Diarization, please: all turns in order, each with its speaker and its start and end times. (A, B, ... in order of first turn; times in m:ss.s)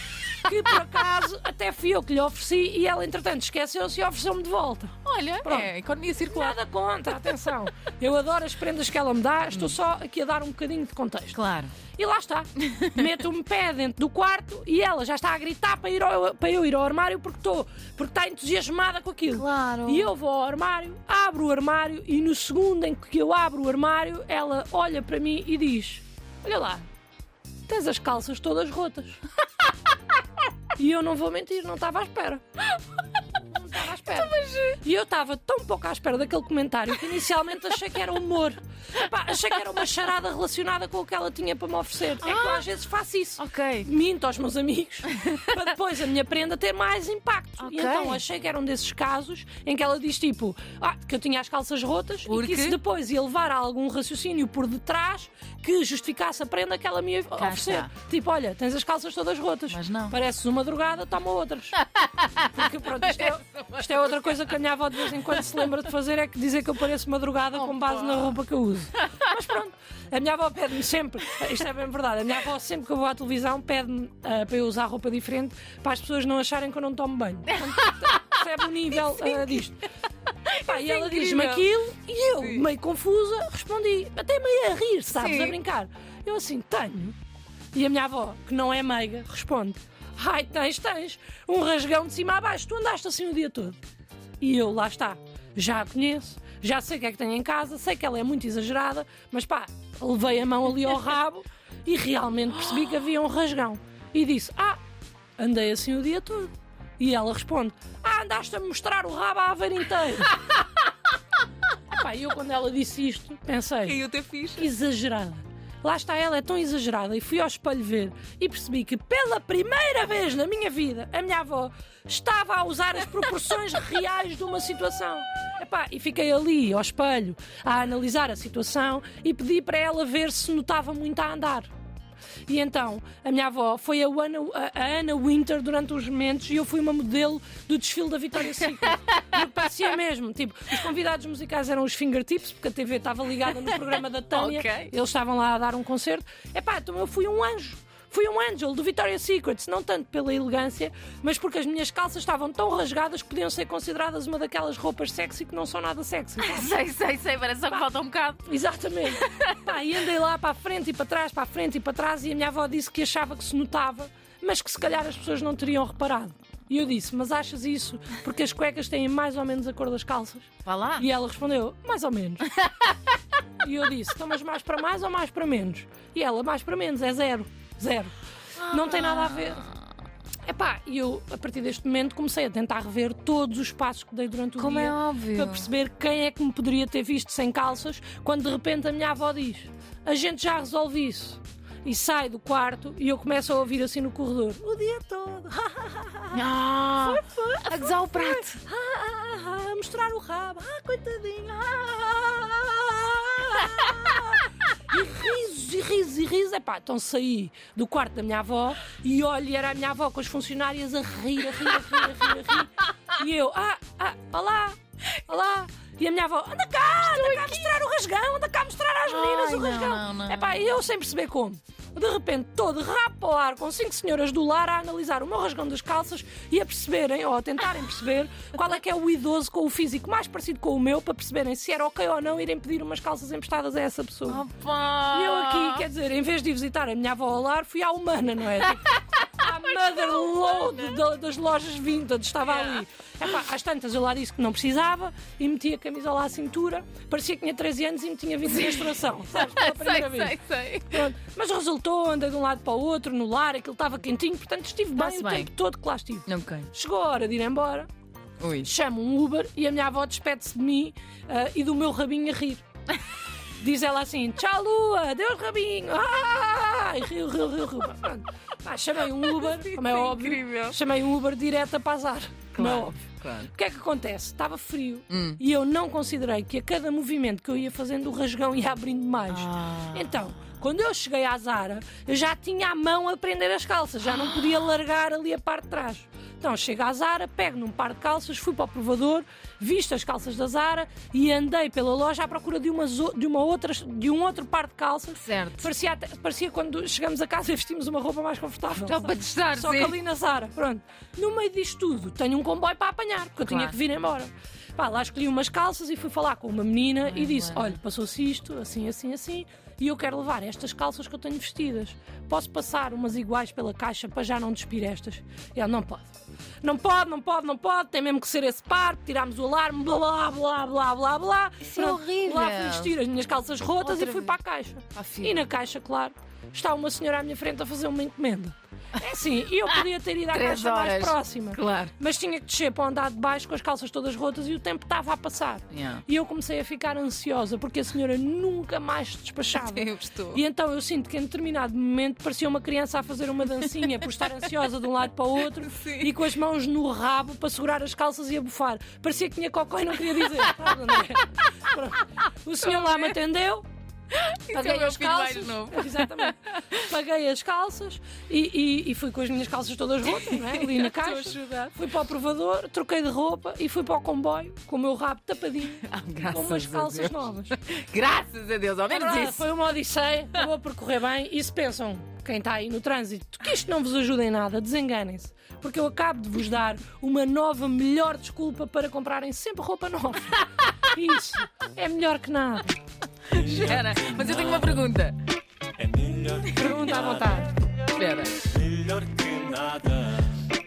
0:00.3-0:11.4 A
0:05.0-0:06.6 B
0:11.3-0:11.7 B
0:12.0-0:26.8 A
0:12.6-0:13.1 B
0:19.3-0:20.1 B
0:27.7-0:29.2 A
0:30.8-0:32.4 A
0:33.4-1:01.8 A
0:34.0-0:34.8 B
0:42.2-0:42.7 B
0:43.4-0:43.9 B
0:45.1-0:45.5 B
0:47.6-0:48.2 B
0:52.2-0:52.8 B
0:57.4-0:57.9 B
0:59.7-1:00.2 B
1:01.8-1:04.5 B
1:02.4-1:19.8 A
1:05.1-1:05.7 B
1:07.6-1:08.4 B
1:17.5-1:19.6 B
1:20.5-1:21.7 B
1:20.6-1:27.1 A
1:22.4-1:22.6 B
1:25.1-1:25.6 B
1:27.7-1:33.8 A
1:34.4-1:44.8 A
1:45.4-1:50.7 A
1:51.9-1:54.0 A
1:53.8-1:54.7 B
1:54.6-2:11.7 A
2:12.5-2:36.7 A
2:23.5-2:23.8 B
2:24.3-2:24.9 B
2:36.4-2:38.5 B
2:38.4-2:52.5 A
2:39.1-2:39.7 B
2:50.6-2:51.1 B
2:53.6-2:58.1 A
2:58.6-2:59.7 B
2:58.7-2:59.6 A
3:00.5-3:16.4 A
3:04.6-3:05.7 B
3:16.3-3:18.6 B
3:17.0-3:54.4 A
3:37.0-3:37.8 B
3:39.0-3:40.8 B
3:54.2-3:55.9 B
3:55.1-4:10.4 A
3:59.9-4:00.9 B
4:08.5-4:11.1 B
4:10.9-4:17.9 A
4:15.0-4:15.5 B
4:16.2-4:16.7 B
4:18.4-4:18.7 B
4:18.6-4:22.6 A
4:23.6-4:33.0 A
4:29.1-4:30.8 B
4:32.5-4:33.5 B
4:33.5-5:16.1 A
4:35.1-4:35.4 B
4:39.3-4:40.3 B
4:55.1-4:55.7 B
4:58.8-5:00.0 B
5:03.4-5:03.8 B
5:07.0-5:07.8 B
5:16.6-5:53.6 A
5:21.6-5:22.9 B
5:23.8-5:24.4 B
5:24.9-5:25.4 B
5:29.7-5:31.9 B
5:35.7-5:36.0 B
5:39.5-5:40.4 B
5:43.7-5:44.5 B
5:45.4-5:46.3 B
5:50.1-5:51.0 B
5:52.6-5:53.2 B
5:54.1-5:56.9 B
5:54.5-6:07.6 A
6:00.0-6:01.8 B
6:05.7-6:09.5 B
6:08.9-6:22.8 A
6:23.3-6:25.2 B
6:25.8-6:26.5 C
6:26.3-6:26.9 B
6:26.5-6:27.5 A
6:27.9-6:28.5 B
6:28.5-6:30.3 C